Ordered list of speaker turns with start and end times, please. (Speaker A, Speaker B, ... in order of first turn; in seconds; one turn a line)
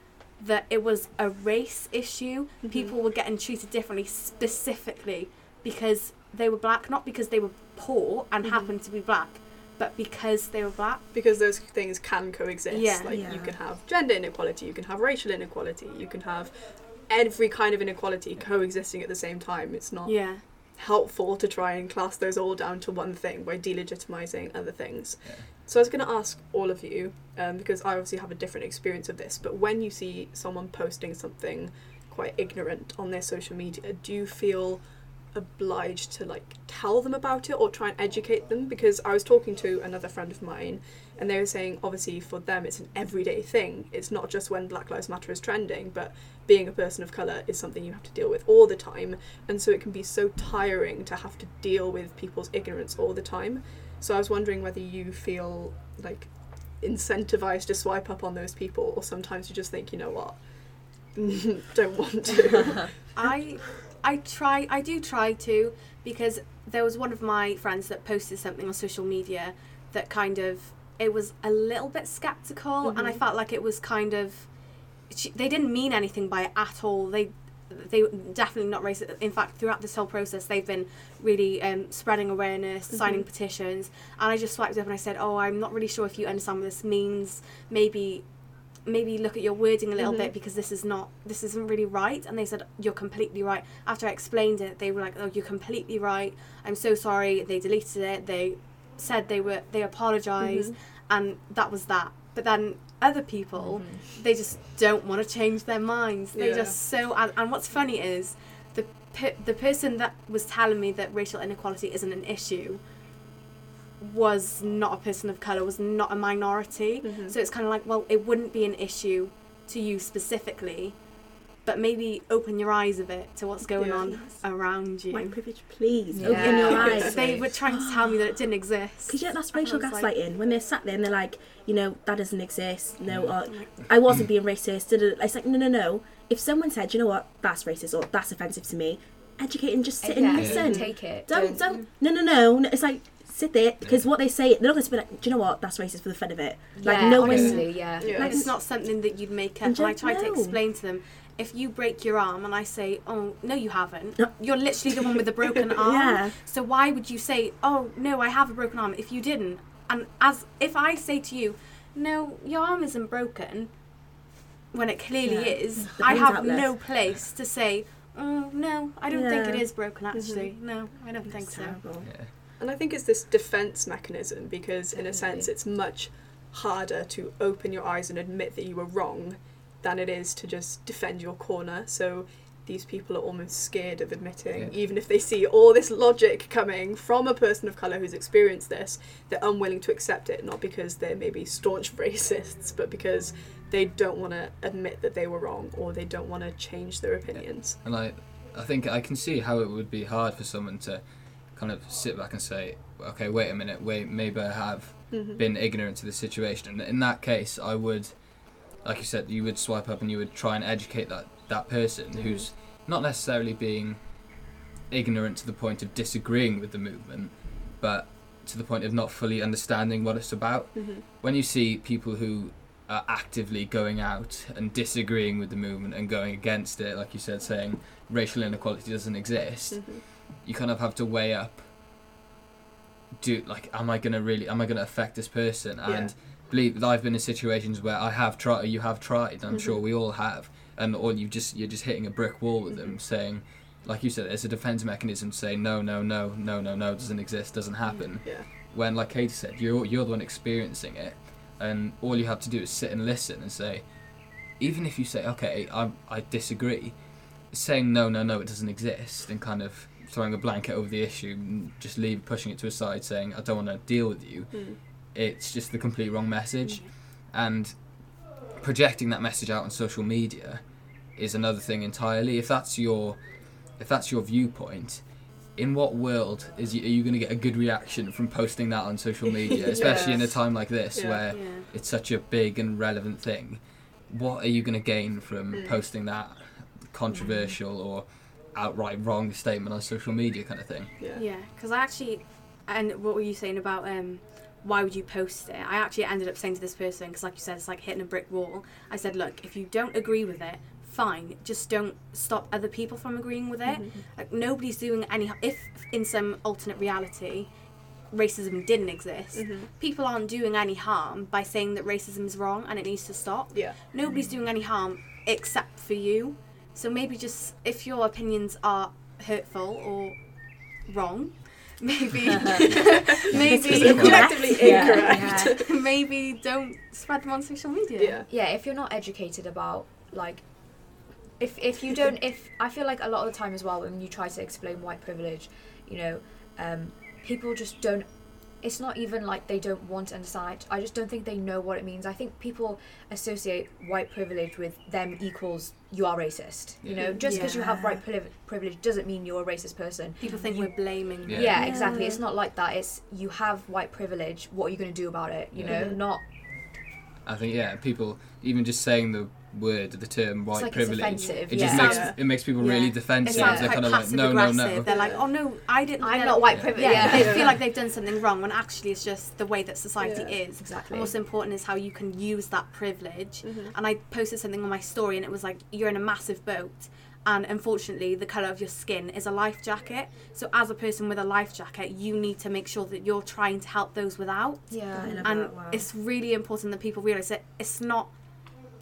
Speaker A: 0.4-11.0
Speaker B: 2.6-2.9
Speaker B: 11.1-63.1
Speaker A: 12.7-13.2
Speaker C: 13.1-13.6
Speaker A: 20.1-20.4
Speaker A: 63.1-74.5
Speaker B: 72.8-73.2
Speaker A: 75.1-88.2
Speaker B: 82.9-83.3
Speaker A: 88.9-112.8
Speaker B: 90.0-90.3
Speaker B: 100.4-100.8
Speaker D: 103.5-104.0
Speaker B: 106.3-106.8
Speaker A: 114.0-121.0
Speaker B: 117.0-117.4
Speaker A: 121.6-125.4
Speaker B: 123.8-124.2
Speaker C: 125.1-128.4
Speaker D: 126.1-127.2
Speaker B: 126.4-127.4
Speaker A: 126.4-130.1
Speaker C: 129.1-148.5
Speaker E: 133.1-134.2
Speaker D: 140.0-141.6
Speaker E: 140.3-140.7
Speaker B: 140.6-141.0
Speaker D: 146.8-148.4
Speaker E: 147.2-147.6
Speaker B: 147.2-148.4
Speaker A: 148.0-163.7
Speaker C: 149.6-150.6
Speaker C: 155.8-156.4
Speaker A: 164.7-171.8
Speaker C: 165.2-166.9
Speaker C: 169.1-169.7
Speaker B: 170.1-170.5
Speaker C: 171.2-172.2
Speaker E: 172.0-172.3
Speaker B: 172.6-197.8
Speaker D: 175.1-175.5
Speaker E: 197.3-208.2
Speaker B: 205.1-205.4
Speaker E: 208.7-214.0
Speaker B: 212.2-212.5
Speaker E: 214.9-231.7
Speaker B: 220.8-221.0
Speaker B: 229.7-230.1
Speaker E: 233.2-290.9
Speaker B: 235.8-236.1
Speaker B: 239.5-239.8
Speaker B: 242.7-243.0
Speaker B: 247.9-248.5
Speaker B: 264.5-264.8
Speaker B: 279.5-280.4
Speaker D: 279.7-280.2
Speaker B: 280.9-281.2
Speaker A: 281.3-281.7
Speaker B: 285.5-285.8
Speaker B: 291.0-291.2
Speaker A: 291.1-307.5
Speaker B: 303.7-304.0
Speaker A: 308.1-328.2
Speaker B: 309.4-309.7
Speaker D: 314.1-314.3
Speaker E: 323.3-324.3
Speaker C: 323.3-325.6
Speaker B: 323.8-325.7
Speaker D: 324.6-325.5
Speaker B: 328.0-328.3
Speaker D: 328.3-356.2
Speaker E: 346.8-347.2
Speaker C: 347.0-348.0
Speaker A: 347.2-347.6
Speaker A: 350.2-352.0
Speaker E: 351.3-351.6
Speaker C: 351.5-352.2
Speaker E: 355.5-355.9
Speaker B: 355.7-356.0
Speaker E: 357.2-365.0
Speaker D: 360.5-362.4
Speaker B: 361.1-362.8
Speaker A: 361.6-388.1
Speaker D: 363.2-363.8
Speaker B: 364.9-365.3
Speaker D: 366.0-367.6
Speaker E: 366.5-367.4
Speaker B: 367.1-367.5
Speaker B: 370.0-370.4
Speaker D: 370.6-371.2
Speaker B: 373.4-373.8
Speaker D: 384.7-385.3
Speaker C: 384.9-385.9